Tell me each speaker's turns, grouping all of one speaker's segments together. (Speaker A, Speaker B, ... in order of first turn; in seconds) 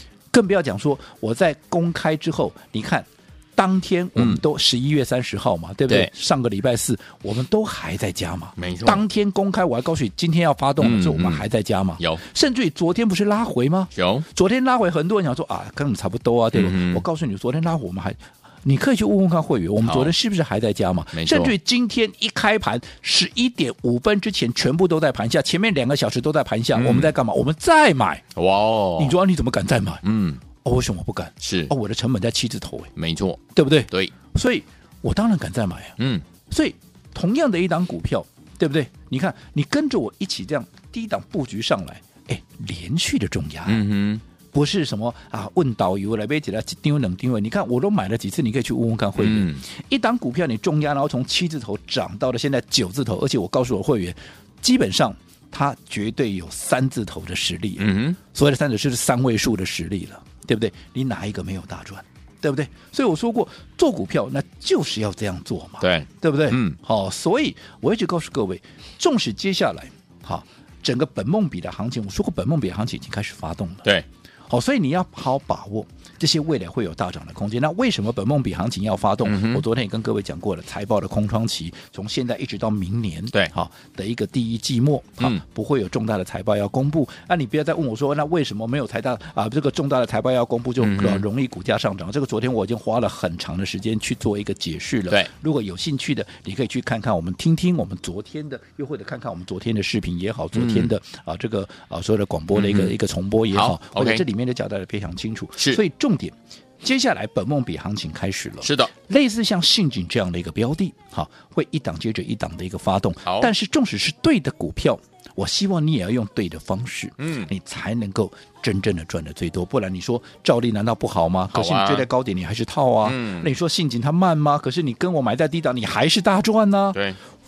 Speaker A: 0.3-28.2, 28.9-30.0, 30.6-32.9, 33.5-36.0, 36.5-43.9, 44.5-73.9, 74.5-127.0
Speaker B: 4.2-4.4, 8.6-9.0, 10.8-11.4, 13.9-14.2, 16.5-17.0, 19.8-20.1, 21.1-21.5, 26.7-27.1, 28.4-29.2, 30.0-30.4, 31.4-31.7, 33.0-34.1, 36.0-36.2, 43.6-44.2, 49.2-49.6, 57.8-58.2, 65.8-66.8, 79.2-79.6, 90.8-91.2, 100.5-100.9, 102.5-102.9, 103.5-104.2, 108.6-108.9, 113.2-113.5, 117.2-117.5, 121.5-122.1, 123.0-123.5